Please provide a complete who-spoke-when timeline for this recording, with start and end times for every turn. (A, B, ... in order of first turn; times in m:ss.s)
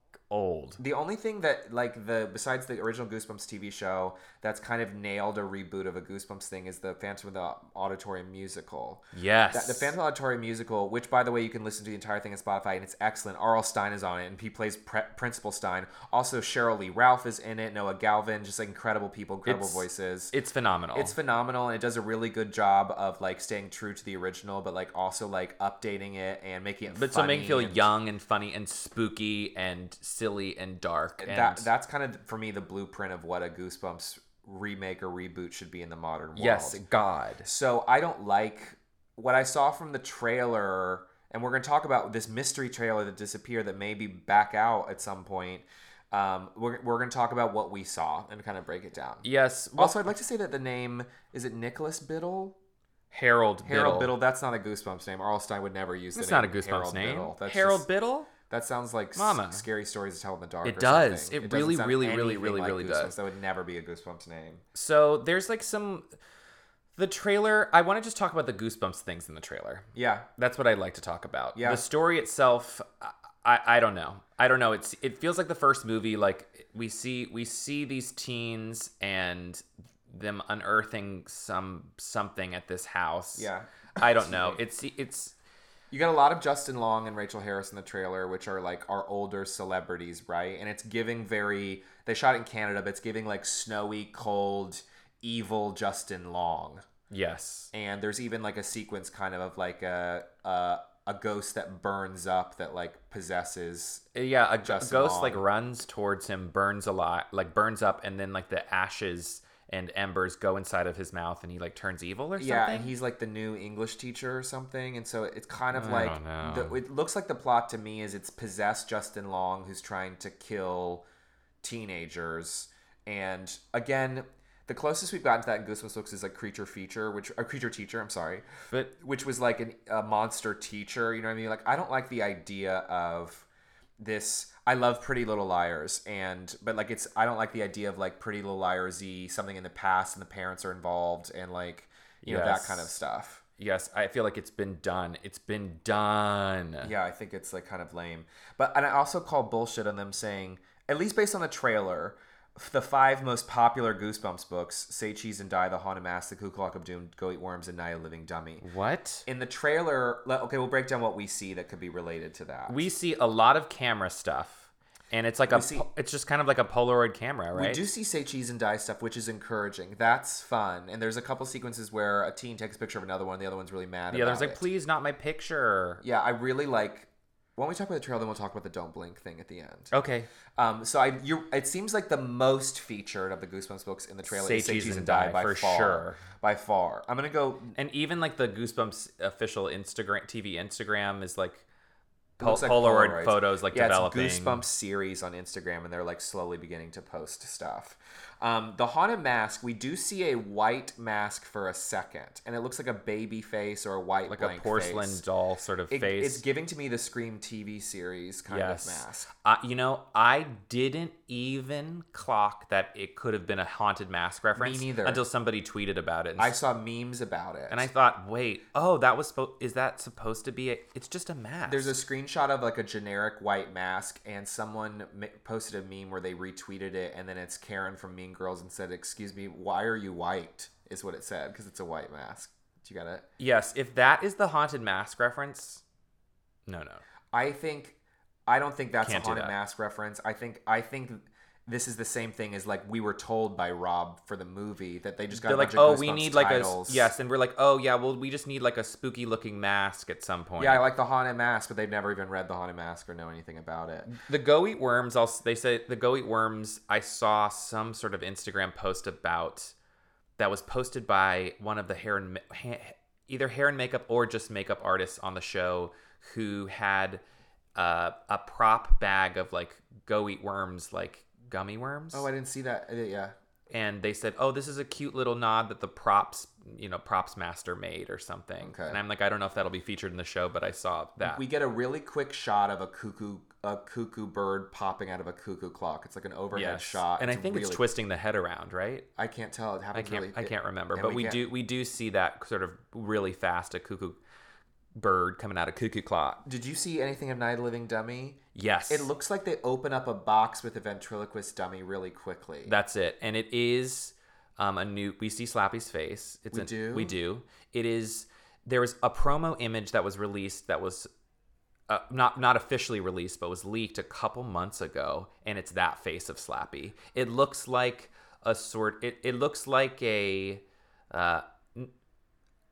0:00.3-0:00.8 A
0:00.8-0:20.3 B
0:09.1-0:09.9 A
0:19.4-0:21.1 A
0:20.9-0:27.9 B
0:26.9-0:31.7 A
0:31.2-0:36.8 B
0:36.4-0:37.5 A
0:37.4-0:52.6 B
0:49.2-0:50.0 A
0:53.1-0:54.1 A
0:53.6-0:57.9 B
0:56.1-0:58.3 A
0:58.5-1:04.6 B
0:59.1-0:59.6 A
1:00.6-1:03.1 A
1:04.7-1:06.1 A
1:07.0-1:25.4 A
1:09.9-1:10.3 B
1:11.6-1:11.8 B
1:23.3-1:24.6 B
1:25.9-1:36.8 B
1:37.1-1:37.7 A
1:37.7-1:44.0 B
1:44.1-1:52.9 A
1:44.6-1:45.4 B
1:52.4-2:01.0 B
1:55.7-1:56.8 A
2:01.6-2:08.4 B
2:09.0-2:13.5 B
2:14.0-2:23.4 B
2:22.2-2:22.9 A
2:23.6-2:26.9 A
2:26.8-2:38.6 B
2:38.6-2:39.2 A
2:39.2-2:42.9 B
2:42.7-2:47.8 A
2:45.5-2:45.8 B
2:47.5-2:54.6 B
2:54.1-2:56.0 A
2:56.0-2:59.9 B
2:59.9-3:00.3 A
3:00.6-3:07.7 B
3:04.2-3:06.2 A
3:07.7-3:11.6 A
3:12.4-3:25.2 B
3:12.4-3:14.6 A
3:24.3-3:26.4 A
3:25.9-3:29.3 B
3:28.5-3:36.6 A
3:34.6-3:35.2 B
3:36.4-3:37.9 B
3:37.7-3:41.9 A
3:41.7-3:53.2 B
3:53.4-3:55.8 A
3:56.7-3:57.0 A
3:57.3-4:07.1 B
3:59.0-3:59.5 A
4:05.3-4:10.8 A
4:10.6-4:14.1 B
4:14.1-4:19.7 A
4:20.4-4:27.2 A
4:27.8-4:32.3 A
4:32.1-4:33.3 B
4:33.7-4:41.4 A
4:38.6-4:39.0 B
4:41.2-4:47.8 B
4:46.5-4:49.1 A
4:49.2-4:51.4 B
4:49.9-4:54.2 A
4:55.0-4:56.4 A
4:56.4-5:02.8 B
4:58.5-4:59.1 A
5:02.6-5:11.1 A
5:06.5-5:07.2 B
5:11.9-5:21.9 A